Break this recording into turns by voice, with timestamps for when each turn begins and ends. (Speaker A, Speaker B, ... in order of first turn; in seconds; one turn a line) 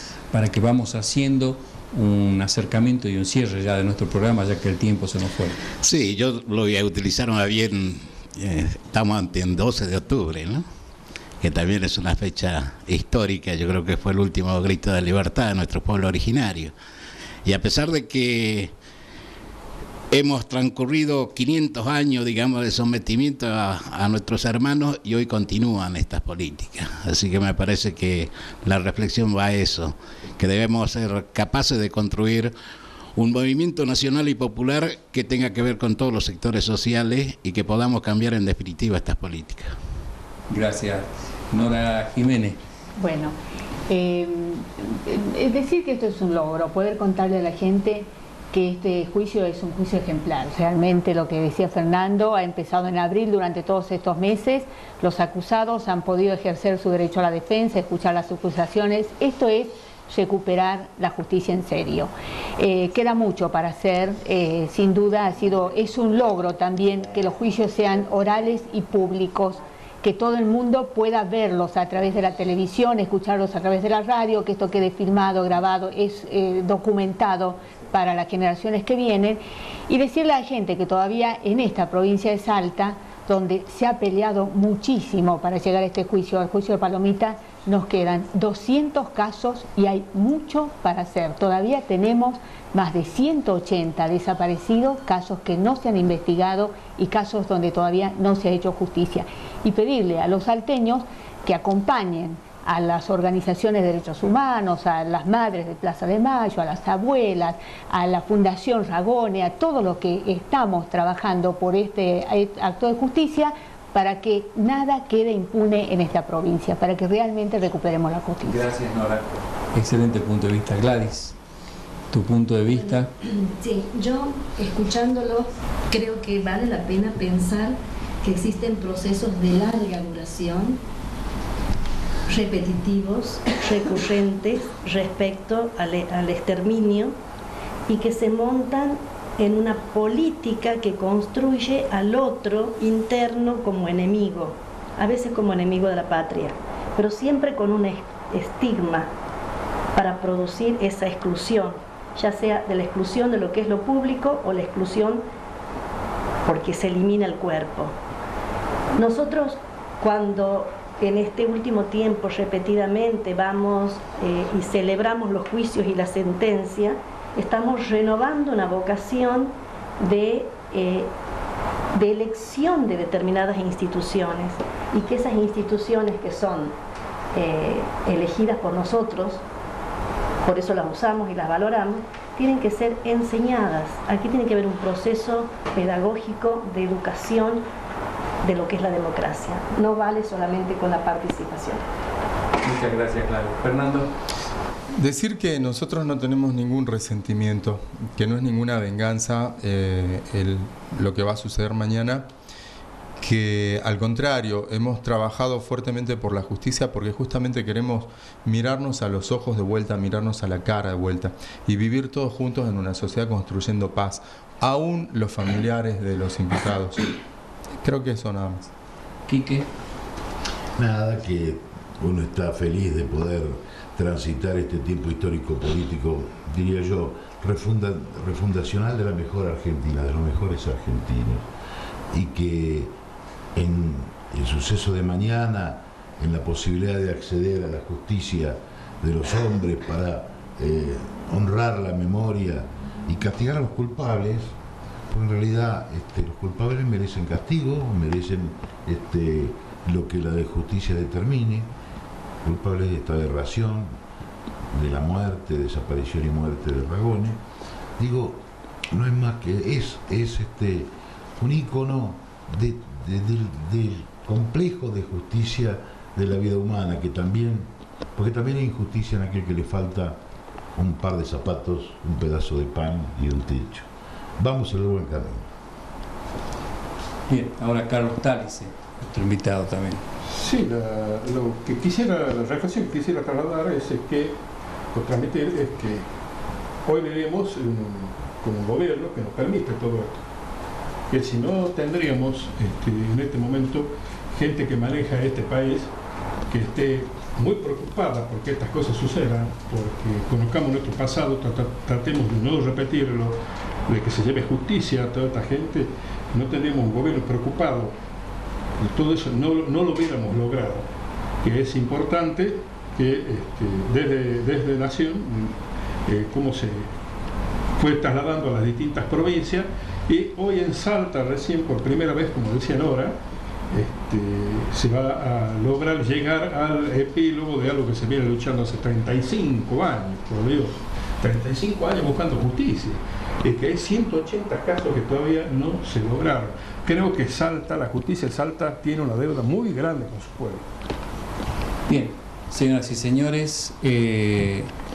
Speaker A: 0.3-5.6
Speaker B: 5.8-10.7
Speaker B: 11.4-16.7
Speaker B: 17.4-18.7
Speaker B: 20.1-32.5
Speaker B: 33.2-39.7
Speaker A: 40.5-42.6
Speaker C: 43.0-43.4
Speaker C: 43.9-118.6
Speaker A: 118.5-121.4
Speaker A: 122.1-123.1
Speaker D: 123.2-130.8
Speaker D: 132.3-137.1
Speaker D: 137.9-149.1
Speaker D: 149.9-155.2
Speaker D: 156.5-157.9
Speaker D: 159.0-171.1
Speaker D: 171.9-176.8
Speaker D: 177.3-179.4
Speaker D: 180.4-187.6
Speaker D: 188.4-191.8
Speaker A: 192.6-194.1
Speaker E: 195.0-202.3
Speaker E: 203.2-217.1
Speaker E: 217.8-218.7
Speaker A: 219.3-219.7
Speaker F: 220.8-231.4
Speaker F: 232.1-232.9
Speaker F: 233.6-244.6
Speaker F: 245.1-251.7
Speaker F: 252.4-254.0
Speaker F: 254.7-257.4
Speaker F: 258.0-258.4
Speaker F: 258.9-270.2
Speaker F: 270.8-273.9
Speaker F: 274.4-275.5
Speaker A: 277.3-280.0
Speaker G: 280.3-284.4
Speaker G: 284.9-286.1
Speaker G: 286.9-290.2
Speaker G: 291.1-295.9
Speaker G: 296.5-307.9
Speaker G: 308.8-310.9
Speaker G: 311.4-315.6
Speaker G: 316.1-316.9
Speaker G: 317.8-323.2
Speaker G: 323.7-340.7
Speaker A: 341.9-344.7